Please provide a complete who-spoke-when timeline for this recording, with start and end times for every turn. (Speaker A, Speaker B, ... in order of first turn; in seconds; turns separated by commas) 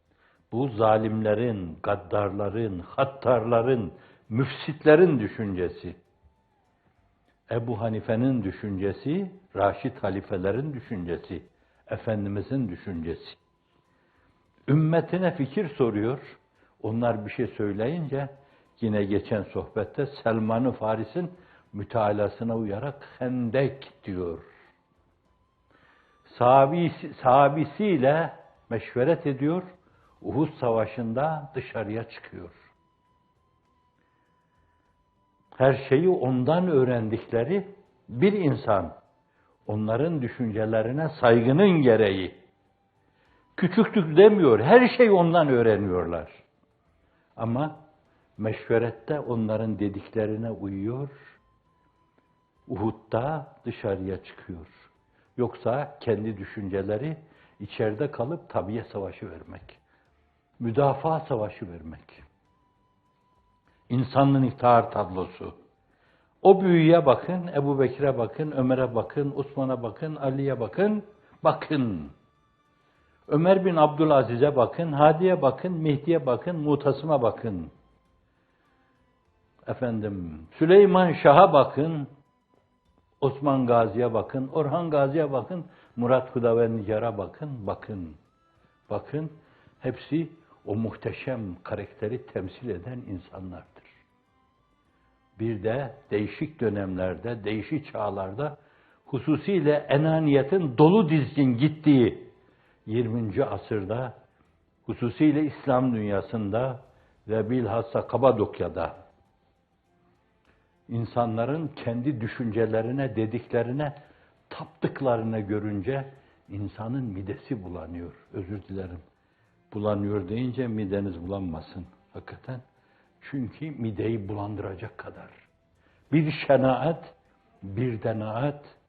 Speaker A: 0.5-6.0, Speaker A: 7.5-13.4, Speaker A: 14.7-24.4, Speaker A: 26.3-29.7, Speaker A: 30.2-32.6, Speaker A: 35.6-39.0, Speaker A: 39.7-42.4, Speaker A: 43.6-46.4, Speaker A: 47.4-47.8, Speaker A: 48.4-51.1, Speaker A: 52.7-54.7, Speaker A: 55.4-59.8, Speaker A: 60.6-62.2, Speaker A: 63.9-65.6, Speaker A: 66.4-72.1, Speaker A: 73.3-77.7, Speaker A: 79.7-82.1, Speaker A: 83.2-88.2, Speaker A: 88.9-93.9, Speaker A: 95.4-102.3, Speaker A: 102.9-104.2, Speaker A: 104.9-109.0, Speaker A: 110.9-114.0, Speaker A: 114.5-119.0, Speaker A: 119.7-122.6, Speaker A: 123.2-125.4, Speaker A: 126.1-128.7